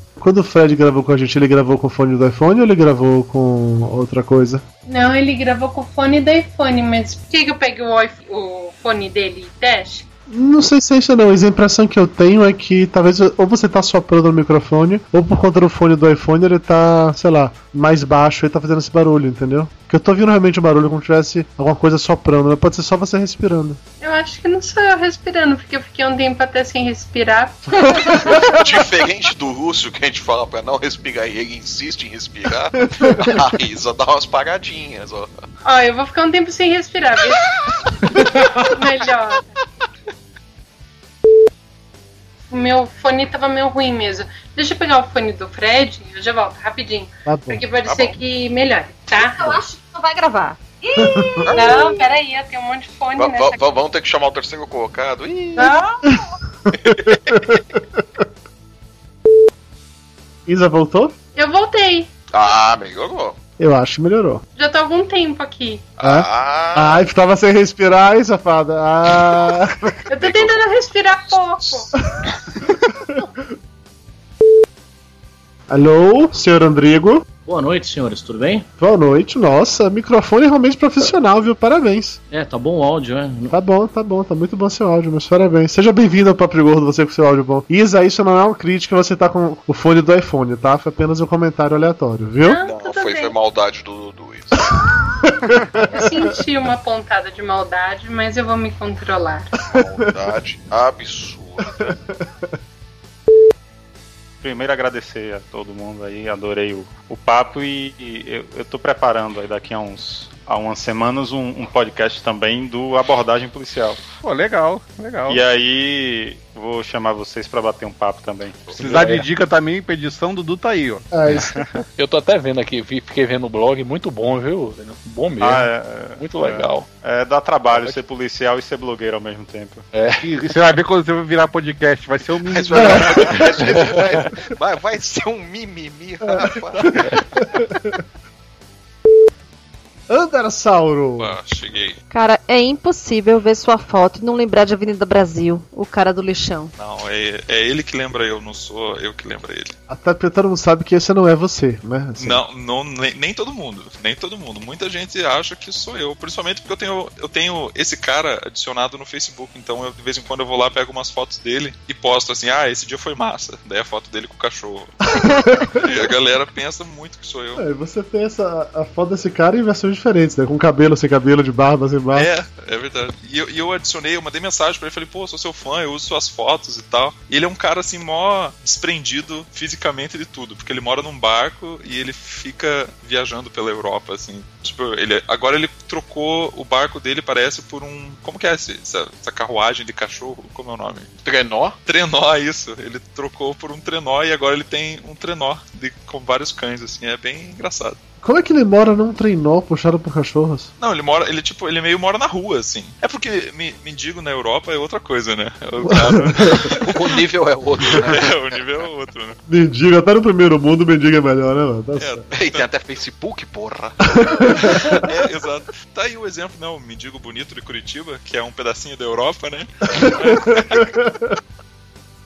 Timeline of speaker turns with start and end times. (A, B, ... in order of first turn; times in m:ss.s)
0:00.2-0:04.6 A
0:04.9-0:10.0 B
0:10.3-0:23.8 A
0:24.0-0:28.3 B
0:28.4-0:35.3 C
0:35.6-0:37.4 B
0:38.7-0:39.5 B
0:42.5-0:49.6 B
0:47.2-0:47.6 A
0:47.8-0:48.2 C
0:51.0-0:51.3 A
0:51.4-0:51.8 C
0:51.5-0:53.6 B
0:53.2-0:55.7 C
0:56.8-0:57.8 A
0:56.9-0:57.2 C
1:00.5-1:01.1 A
1:01.4-1:02.1 B
1:02.3-1:03.4 C
1:03.6-1:04.4 A
1:04.6-1:05.9 B
1:06.0-1:07.0 C
1:06.0-1:09.9 A
1:10.1-1:11.9 B
1:10.2-1:10.7 C
1:11.3-1:11.8 C
1:15.7-1:17.2 A
1:17.5-1:18.6 D
1:18.8-1:22.2 A
1:22.4-1:23.5 D
1:23.5-1:32.6 A
1:32.4-1:33.4 B
1:32.6-1:34.6 C
1:35.4-1:36.2 A
1:35.9-1:39.5 B
1:39.7-1:41.9 C
1:44.4-1:54.0 D
1:54.2-1:55.4 E
1:55.3-1:58.7 D
1:58.7-2:01.0 E
2:01.1-2:01.6 A
2:05.4-2:09.8 D
2:10.2-2:14.2 E
2:12.5-2:17.2 C
2:12.7-2:13.2 A
2:17.5-2:17.9 A
2:20.1-2:21.3 A
2:21.2-2:22.0 F
2:22.1-2:26.7 G
2:26.8-2:29.7 F
2:29.9-2:32.4 A
2:32.2-2:44.9 F
2:45.2-2:45.6 A
2:45.8-2:47.6 F
2:47.6-2:52.3 A
2:52.1-3:11.1 F
3:11.2-3:11.8 C
3:11.8-3:18.0 F
3:18.2-3:20.7 A
3:20.8-3:26.8 F
3:26.8-3:28.2 C
3:27.9-3:29.4 F
3:29.5-3:32.2 A
3:32.0-3:32.7 F
3:32.3-3:35.1 C
3:35.1-3:40.8 F